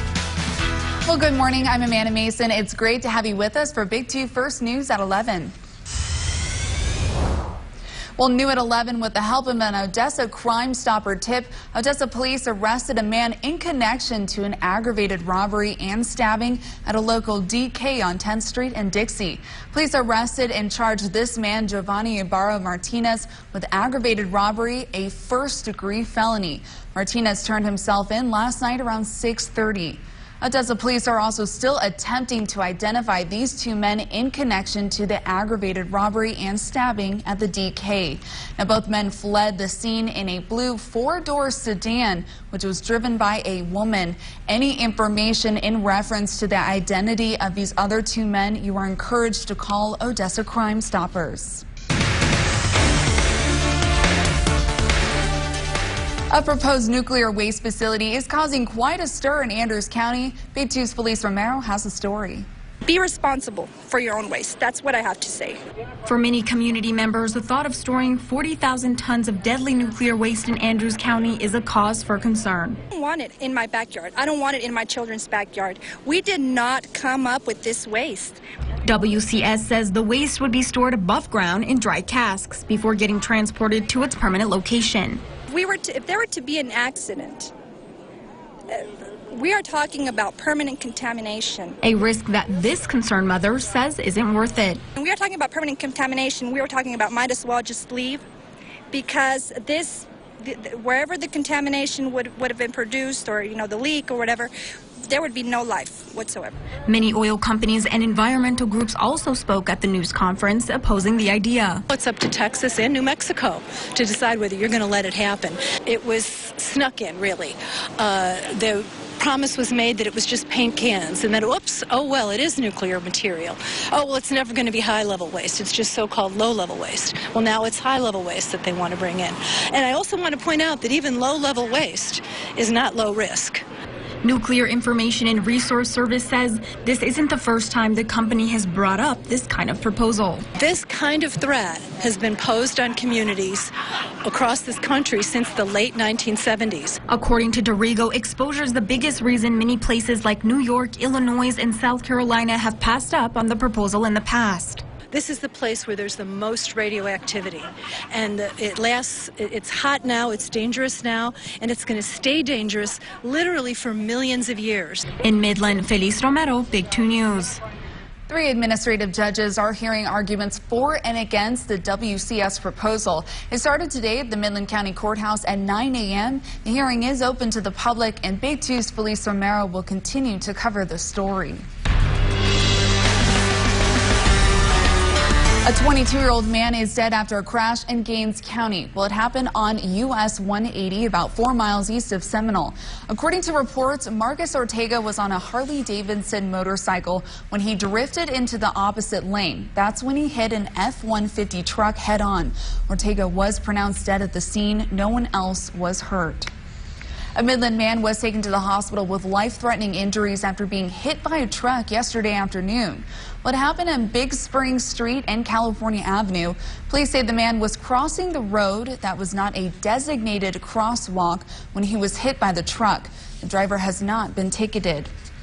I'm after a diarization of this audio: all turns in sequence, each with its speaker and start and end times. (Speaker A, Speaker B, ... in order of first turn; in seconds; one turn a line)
Speaker A: 1.1-5.5
Speaker A: 8.2-51.6
Speaker A: 56.3-62.5
Speaker B: 62.8-65.6
Speaker C: 66.0-72.8
Speaker B: 72.9-78.4
Speaker C: 78.8-85.2
Speaker B: 85.5-87.5
Speaker B: 88.7-91.8
Speaker C: 91.8-94.8
Speaker B: 95.0-98.2
Speaker B: 98.9-104.5
Speaker B: 105.1-106.5
Speaker C: 106.9-111.8
Speaker D: 111.9-133.6
Speaker C: 134.2-140.4
Speaker D: 140.6-143.7
Speaker D: 144.2-147.0
Speaker C: 147.1-154.8
Speaker D: 155.1-165.1
Speaker C: 165.2-167.6
Speaker A: 168.3-181.6
Speaker A: 185.6-206.5
Speaker A: 207.3-225.1